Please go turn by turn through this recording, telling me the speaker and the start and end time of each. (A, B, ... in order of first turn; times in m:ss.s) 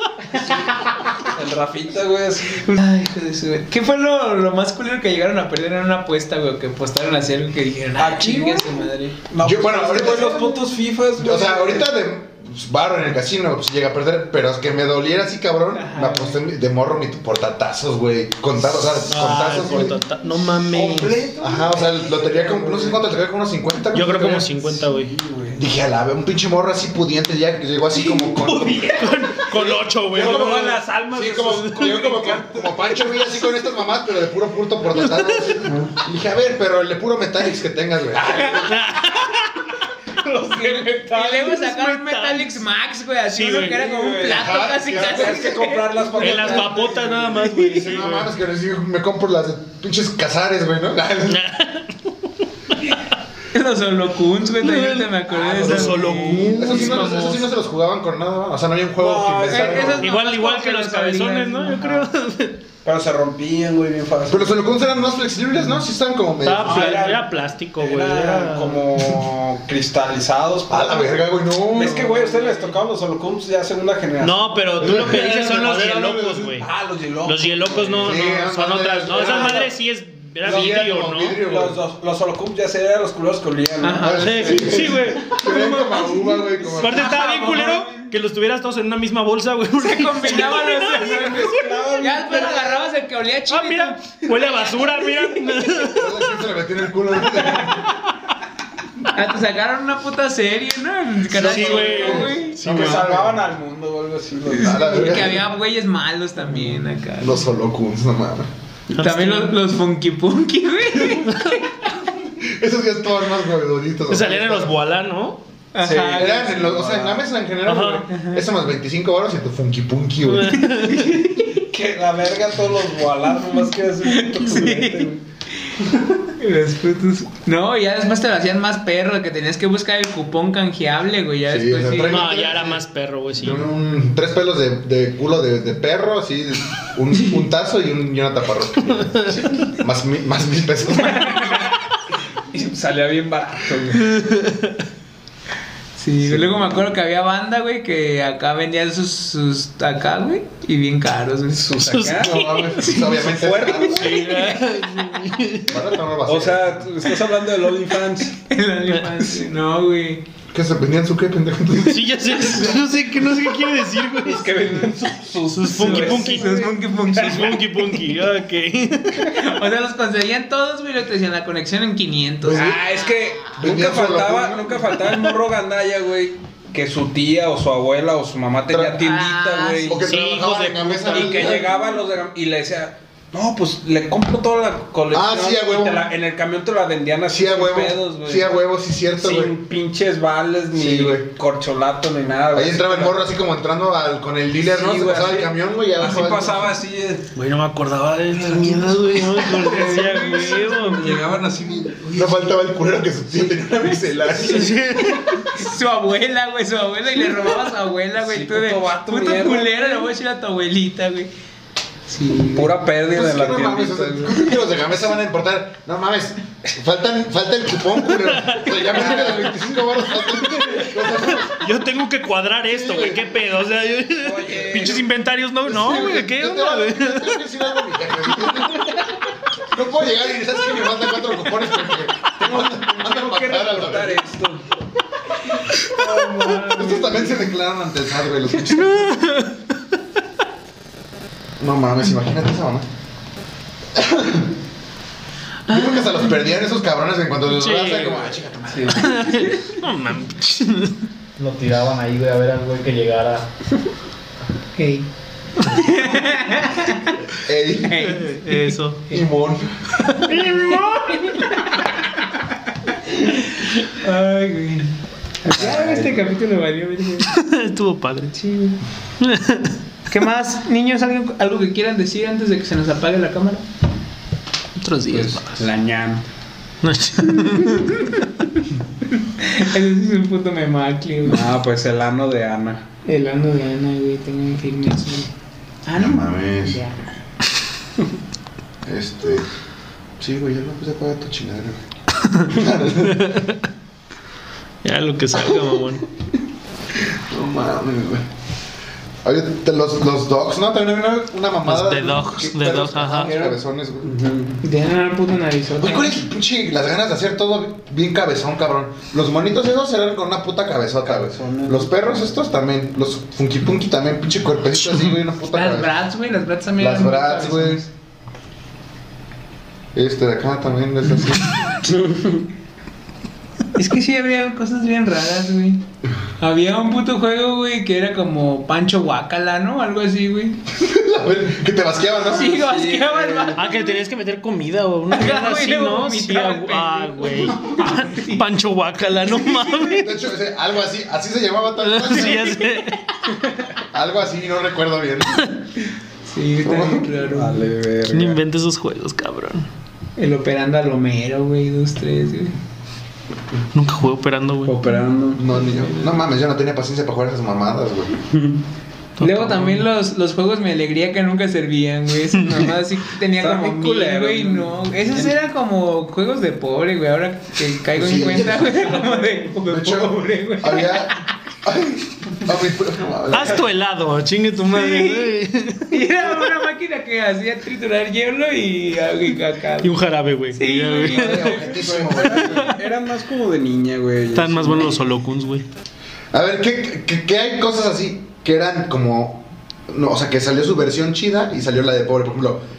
0:00.3-0:02.7 A
0:00.4-0:01.2 B
0:02.5-0:09.2 B
0:08.0-0:11.9 A
0:09.4-0:10.6 C
0:11.2-0:20.0 C
0:15.7-0:16.4 B
0:19.1-0:21.3 D
0:20.7-0:23.0 A
0:21.4-0:24.5 C
0:23.9-0:25.1 D
0:24.4-0:25.6 A
0:25.6-0:28.9 C
0:28.1-0:33.3 A
0:28.9-0:30.8 D
0:29.6-0:38.7 C
0:31.5-0:32.0 D
0:35.0-0:35.6 D
0:35.6-0:36.0 A
0:38.1-0:38.8 A
0:38.6-0:39.6 D
0:40.2-0:41.4 A
0:40.4-0:46.8 B
0:41.1-0:42.6 D
0:43.3-0:43.8 D
0:43.6-0:47.5 A
0:44.3-0:45.5 C
0:46.2-0:48.3 D
0:47.6-0:51.4 C
0:51.3-0:52.1 D
0:53.5-0:57.0 B
0:54.6-0:57.5 D
0:55.3-0:57.0 A
0:55.6-1:00.1 C
0:59.0-1:00.1 A
0:59.5-1:02.1 B
1:00.0-1:02.6 D
1:02.8-1:04.6 A
1:04.3-1:07.0 C
1:06.4-1:09.0 D
1:06.6-1:15.5 A
1:10.7-1:12.2 C
1:14.2-1:16.7 D
1:14.8-1:16.6 C
1:16.6-1:18.2 A
1:17.2-1:21.4 D
1:18.0-1:19.7 C
1:19.1-1:19.7 A
1:20.4-1:25.1 A
1:20.4-1:21.8 C
1:23.8-1:24.4 B
1:24.0-1:27.2 C
1:24.1-1:31.9 D
1:26.9-1:28.1 B
1:29.8-1:35.2 B
1:31.1-1:32.7 A
1:33.5-1:36.4 D
1:35.9-1:37.9 C
1:39.1-1:42.6 B
1:41.3-1:43.2 D
1:41.3-1:43.4 C
1:41.6-1:45.3 A
1:44.5-1:47.4 B
1:44.6-1:45.4 C
1:47.2-1:48.5 C
1:48.9-1:49.6 D
1:49.0-1:51.7 B
1:51.2-1:51.5 D
1:52.4-1:54.8 C
1:54.1-1:55.4 D
1:55.7-1:56.6 B
1:55.8-1:57.2 A
1:56.1-2:00.7 C
1:57.6-1:58.1 D
1:58.1-1:58.4 B
2:00.2-2:01.1 D
2:00.8-2:01.6 B
2:00.9-2:05.2 A
2:04.0-2:05.1 B
2:06.4-2:12.3 B
2:11.5-2:12.8 C
2:12.0-2:13.6 D
2:13.4-2:21.5 C
2:21.2-2:21.6 B
2:21.2-2:21.7 A
2:22.5-2:24.2 A
2:24.1-2:24.8 D
2:26.0-2:31.8 B
2:26.3-2:26.5 A
2:31.5-2:34.6 A
2:31.8-2:33.0 D
2:32.1-2:34.3 C
2:32.8-2:33.2 B
2:33.9-2:35.9 D
2:35.7-2:36.9 C
2:36.3-2:38.4 A
2:38.5-2:40.2 B
2:40.5-2:42.8 C
2:41.7-2:44.8 D
2:44.2-2:46.6 A
2:45.5-2:49.4 D
2:45.7-2:47.7 B
2:49.3-2:53.1 B
2:52.4-2:52.8 C
2:52.5-3:00.1 A
2:53.6-2:54.7 C
2:58.7-2:59.0 C
2:59.0-3:00.0 B
2:59.9-3:01.8 C
3:00.0-3:01.6 D
3:01.0-3:08.5 A
3:05.1-3:06.0 C
3:07.3-3:09.5 C
3:09.2-3:13.2 A
3:10.8-3:11.3 C
3:12.5-3:16.8 C
3:14.6-3:17.3 A
3:17.3-3:21.3 D
3:18.7-3:22.5 A
3:19.6-3:21.2 B
3:22.0-3:24.8 C
3:23.3-3:24.6 A
3:24.4-3:25.4 D
3:25.4-3:31.3 B
3:28.2-3:30.0 A
3:32.1-3:32.8 B
3:32.4-3:34.5 A
3:33.1-3:41.7 C
3:38.2-3:39.4 D
3:38.9-3:39.4 A
3:40.2-3:47.4 D
3:42.7-3:43.2 C
3:44.2-3:45.1 A
3:45.6-3:49.0 C
3:49.6-3:54.2 C
3:52.4-3:54.6 A
3:56.0-3:57.2 B
3:56.5-3:59.2 C
3:58.8-3:59.6 D
4:01.6-4:02.9 C
4:03.9-4:04.5 C
4:05.7-4:09.4 C
4:05.7-4:06.2 B
4:07.5-4:08.3 D
4:08.7-4:09.7 A
4:08.9-4:11.0 D
4:11.4-4:13.5 E
4:14.8-4:15.1 B
4:15.6-4:17.2 B
4:17.4-4:18.2 C
4:17.9-4:19.3 B
4:18.0-4:19.0 D
4:19.1-4:20.0 C
4:20.1-4:21.0 D
4:20.3-4:22.0 B
4:23.0-4:27.3 B
4:25.4-4:26.4 A
4:27.3-4:28.4 D
4:28.3-4:28.8 B
4:29.2-4:29.8 D
4:30.1-4:33.6 B
4:34.8-4:35.6 D
4:35.1-4:36.3 A
4:36.8-4:38.0 D
4:37.3-4:38.2 B
4:39.1-4:41.5 B
4:41.2-4:42.8 A
4:43.0-4:45.3 B
4:45.8-4:47.0 B
4:46.0-4:46.8 C
4:48.8-4:49.5 C
4:50.2-4:51.8 C
4:52.5-4:53.4 C
4:53.1-4:53.6 D
4:54.8-4:56.1 D
4:57.1-4:58.3 C
4:59.2-5:04.1 C
5:01.7-5:03.4 D
5:03.2-5:04.6 A
5:04.6-5:06.2 B
5:05.8-5:15.9 C
5:11.1-5:12.3 A
5:15.5-5:17.9 B
5:16.8-5:17.8 C
5:20.0-5:21.7 C
5:21.8-5:22.5 A
5:23.8-5:25.8 B
5:26.4-5:30.6 B
5:30.7-5:32.7 C
5:32.3-5:33.9 B
5:32.4-5:33.7 A
5:33.6-5:40.2 D
5:35.1-5:38.5 B
5:39.3-5:39.9 B
5:39.9-5:42.8 C
5:41.8-5:43.2 D
5:43.9-5:45.5 C
5:46.3-5:47.7 B
5:46.6-5:47.1 C
5:47.1-5:48.4 A
5:48.1-5:49.7 D
5:50.2-5:52.6 B
5:53.7-5:54.8 D
5:54.7-5:55.8 A
5:55.4-5:58.1 C
5:58.2-5:58.6 A
5:59.2-5:59.8 D
5:59.2-6:11.2 B
6:03.3-6:05.4 A
6:08.0-6:08.9 C
6:09.7-6:13.7 C
6:13.3-6:15.9 D
6:14.7-6:15.4 B
6:15.9-6:20.0 B
6:19.8-6:21.6 D
6:20.5-6:21.9 B
6:21.1-6:22.7 C
6:21.6-6:25.0 A
6:24.3-6:25.6 D
6:26.3-6:32.6 C